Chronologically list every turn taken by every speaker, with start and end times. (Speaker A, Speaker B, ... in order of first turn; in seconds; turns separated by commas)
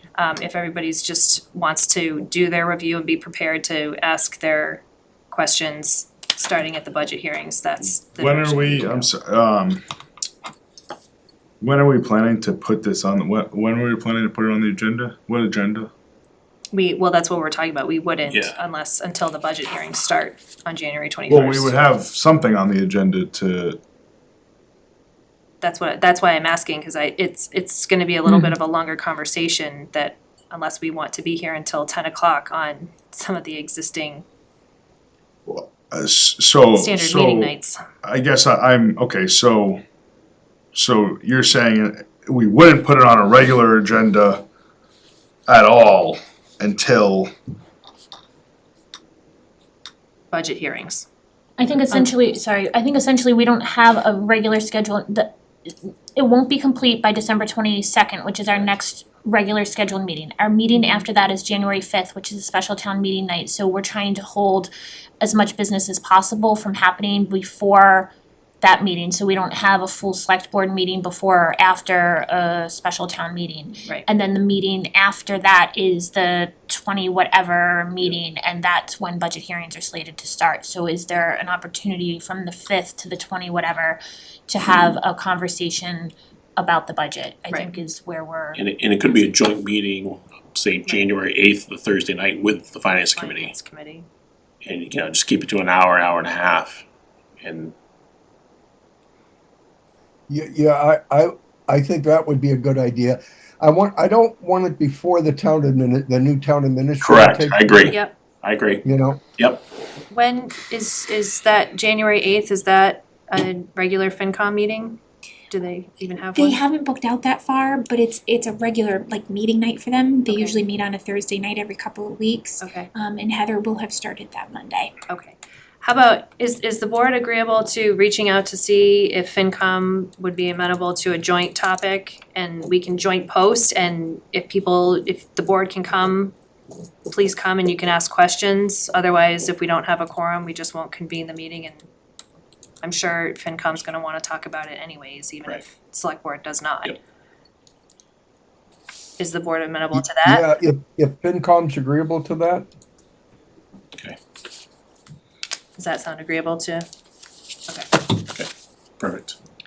Speaker A: 0.1-9.1, Speaker B: 8.2-9.8, Speaker B: 11.6-15.9, Speaker A: 16.7-21.8, Speaker C: 18.3-18.6, Speaker B: 21.3-23.8, Speaker A: 25.6-34.2, Speaker B: 35.5-37.5, Speaker A: 36.7-37.8, Speaker B: 38.0-39.8, Speaker B: 40.7-44.4, Speaker B: 45.5-47.3, Speaker A: 50.3-51.1, Speaker D: 51.6-88.6, Speaker A: 60.7-61.0, Speaker C: 88.5-93.5, Speaker A: 90.8-91.1, Speaker A: 93.1-94.0, Speaker C: 94.6-96.8, Speaker C: 97.4-97.7, Speaker E: 100.3-107.9, Speaker C: 107.0-108.8, Speaker A: 107.9-108.1, Speaker E: 108.8-109.2, Speaker C: 109.4-109.6, Speaker A: 110.1-115.0, Speaker A: 115.5-116.6, Speaker F: 116.3-124.9, Speaker A: 120.3-120.6, Speaker A: 122.6-122.9, Speaker A: 125.1-136.3, Speaker A: 137.1-141.8, Speaker A: 142.8-146.9, Speaker A: 149.2-150.4, Speaker E: 149.9-152.7, Speaker A: 155.8-156.8, Speaker C: 158.3-159.3